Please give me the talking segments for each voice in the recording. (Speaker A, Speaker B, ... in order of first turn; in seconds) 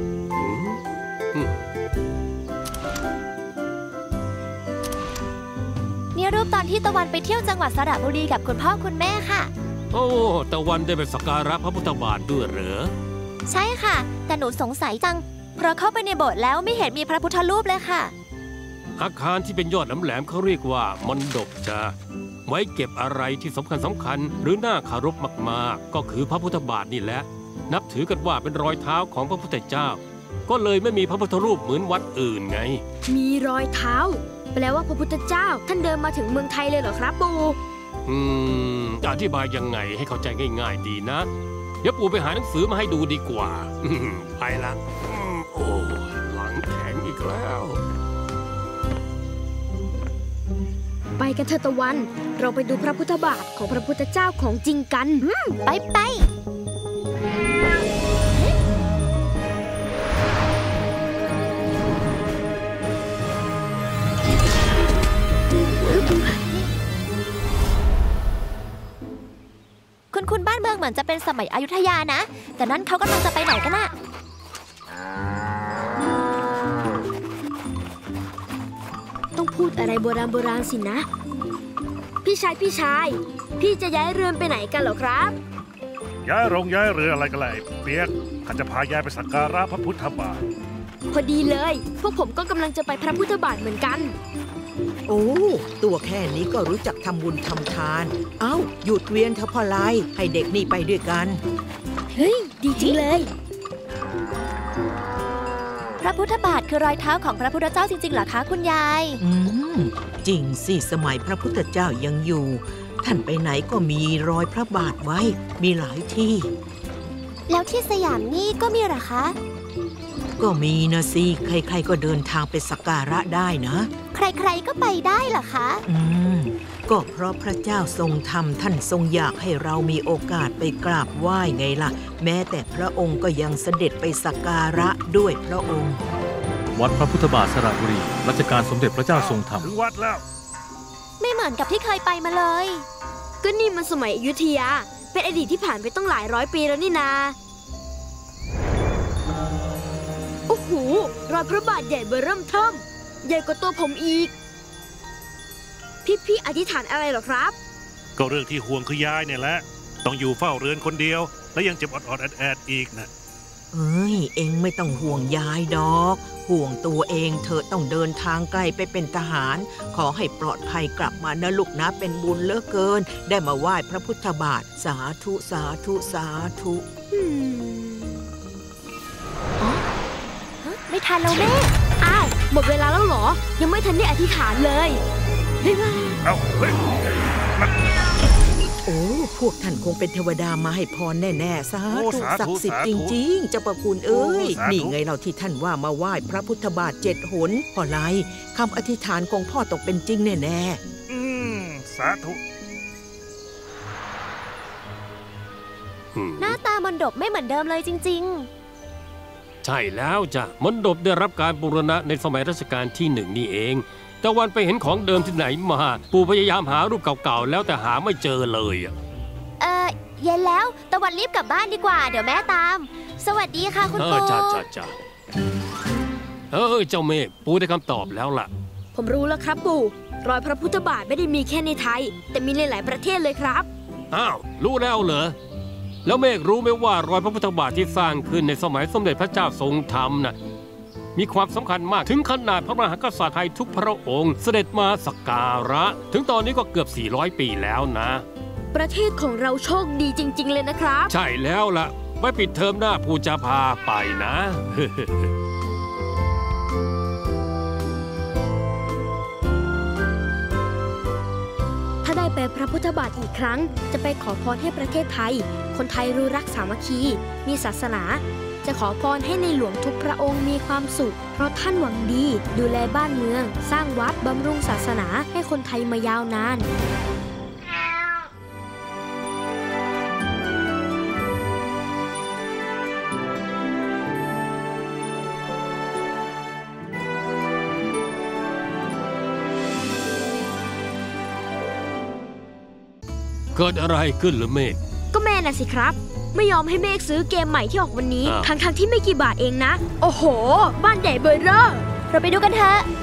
Speaker A: 0.4-1.6, 9.9-12.9, 19.0-21.9, 22.4-32.8, 38.1-41.3, 41.8-47.8, 206.1-206.6, 209.6-218.9, 223.9-224.9, 226.5-228.5, 234.1-235.3, 236.0-240.3, 241.1-248.2, 251.1-255.3, 293.5-294.8, 298.2-298.5
Speaker B: 6.1-9.5, 13.5-18.1, 55.2-56.3, 70.1-73.9, 102.7-103.0, 106.0-109.2, 117.5-119.3, 124.1-125.8, 141.2-142.8, 180.6-181.7, 206.4-208.5, 219.6-224.6, 302.1-302.9
Speaker C: 33.1-37.6, 51.2-55.2, 79.3-81.1, 82.2-85.3, 91.1-94.1, 102.1-103.3, 143.4-147.3, 150.5-154.3, 156.0-157.5, 177.1-178.2, 182.0-185.0, 185.6-186.2, 228.9-233.7, 248.7-251.1, 262.0-276.7, 295.1-301.9
Speaker D: 86.2-90.4, 139.1-140.2, 158.2-163.1, 186.2-186.8, 191.9-193.2, 194.1-194.9, 201.1-202.4
Speaker E: 95.1-101.4, 109.2-116.5, 120.4-123.9, 125.8-136.0, 163.7-176.8, 188.8-200.8
Speaker F: 136.7-139.7